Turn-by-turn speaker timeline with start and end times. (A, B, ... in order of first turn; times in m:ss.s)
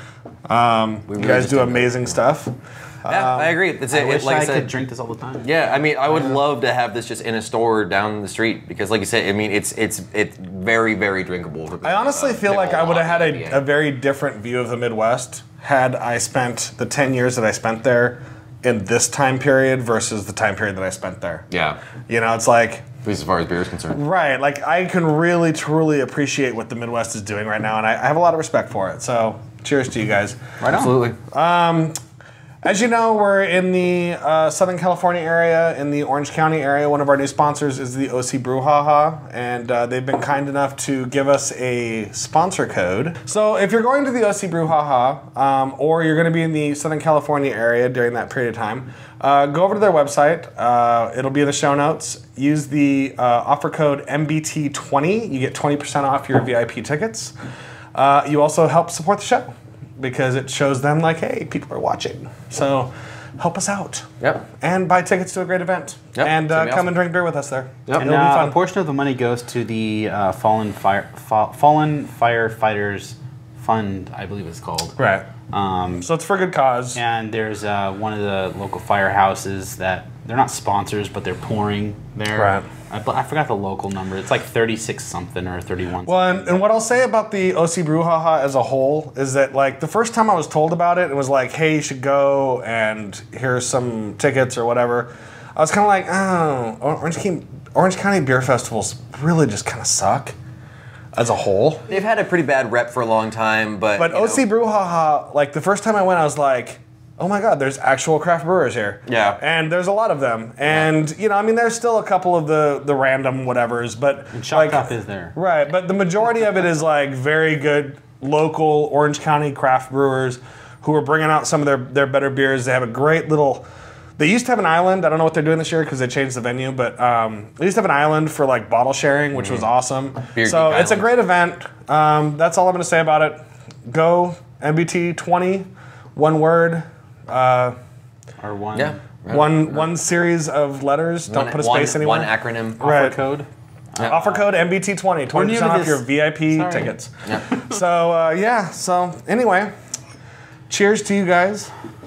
0:00.5-0:03.6 A
0:01.1-0:02.0 B
0:03.0-0:04.7 B
0:03.9-0:05.5 C
0:05.4-0:13.6 B
0:11.8-0:21.5 A
0:21.5-0:21.8 B
0:22.1-0:22.9 A
0:23.0-0:24.0 B
0:23.9-0:30.4 A
0:30.6-0:31.0 C
0:30.7-0:31.2 B
0:31.3-0:32.0 A
0:32.6-0:57.3 A
0:57.9-1:04.1 A
1:04.2-1:04.4 B
1:04.6-1:08.6 A
1:06.1-1:06.9 B
1:08.0-1:15.0 C
1:15.0-1:15.3 A
1:15.5-1:16.1 C
1:16.0-1:17.0 A
1:16.9-1:26.6 C
1:22.3-1:22.6 A
1:26.0-1:40.3 A
1:41.1-1:41.9 A
1:41.9-1:44.4 B
1:44.0-2:03.6 A
1:49.0-1:49.4 B
1:54.3-1:55.4 C
2:04.2-2:17.8 A
2:09.4-2:09.6 B
2:10.3-2:11.0 B
2:18.4-2:19.0 C
2:18.7-2:19.9 B
2:19.3-2:23.2 A
2:21.3-2:22.8 B
2:22.8-2:24.4 C
2:24.0-2:29.7 A
2:25.3-2:27.0 C
2:30.7-2:31.7 A